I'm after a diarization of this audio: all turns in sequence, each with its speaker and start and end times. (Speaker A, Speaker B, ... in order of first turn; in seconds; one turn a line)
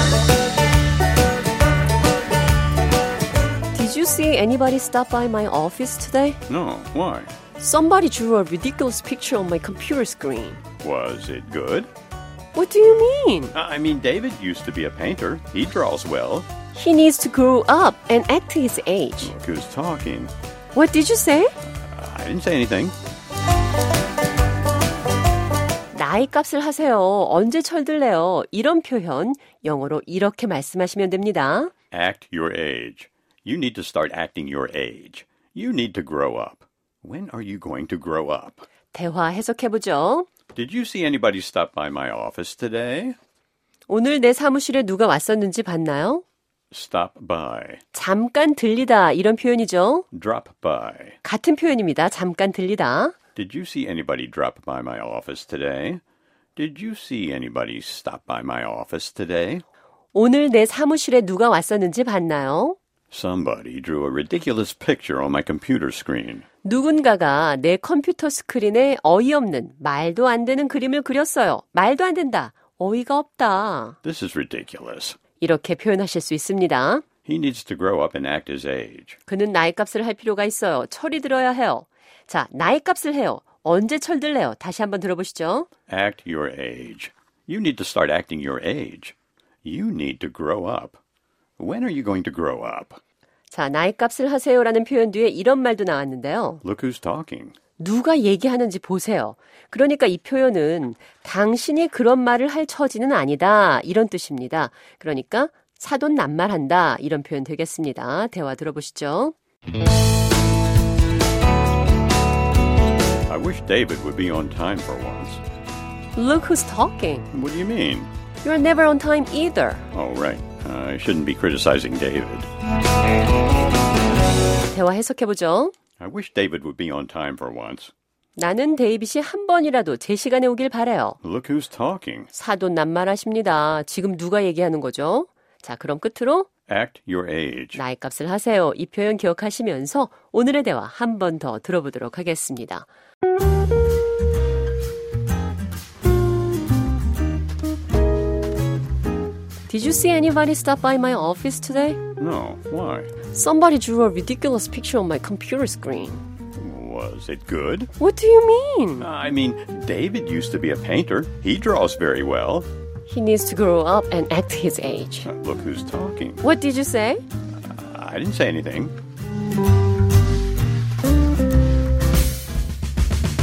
Speaker A: 3.7-6.4
Speaker B: 6.5-7.3
Speaker A: 7.6-10.6
Speaker B: 10.8-11.9
Speaker A: 12.5-13.5
Speaker B: 13.5-16.5
Speaker A: 16.7-19.3
Speaker B: 19.2-20.3
Speaker A: 20.7-21.5
Speaker B: 21.8-22.9
Speaker A: 25.9-31.7
Speaker B: 31.9-38.6
Speaker A: 38.9-40.3
Speaker B: 40.5-43.1
Speaker A: 43.9-46.2
Speaker B: 46.7-47.8
Speaker A: 47.9-50.0
Speaker B: 50.1-51.2
Speaker A: 51.2-53.1
Speaker B: 53.4-56.0
Speaker B: 56.5-59.6
Speaker A: 60.1-62.8
Speaker B: 63.1-66.4
Speaker A: 66.6-74.0
Speaker B: 74.0-75.2
Speaker A: 75.4-77.0
Speaker B: 77.2-79.2
Speaker A: 79.3-85.7
Speaker B: 85.9-91.0
Speaker B: 91.6-93.0
Speaker A: 93.5-96.6
Speaker B: 96.6-97.5
Speaker A: 97.8-109.3
Speaker B: 113.3-115.4
Speaker A: 116.1-117.3
Speaker B: 117.3-118.1
Speaker A: 118.4-119.9
Speaker B: 119.9-122.5
Speaker A: 124.7-125.7
Speaker B: 126.0-127.9
Speaker A: 128.3-131.2
Speaker B: 131.2-132.3
Speaker A: 132.3-136.5
Speaker B: 136.7-137.8
Speaker A: 137.7-142.9
Speaker A: 149.7-152.0
Speaker B: 152.2-153.1
Speaker A: 153.3-156.2
Speaker B: 156.6-157.9
Speaker A: 158.0-159.1
Speaker B: 159.0-162.7
Speaker A: 163.1-165.3
Speaker B: 165.2-166.4
Speaker A: 166.4-167.2
Speaker B: 167.5-168.9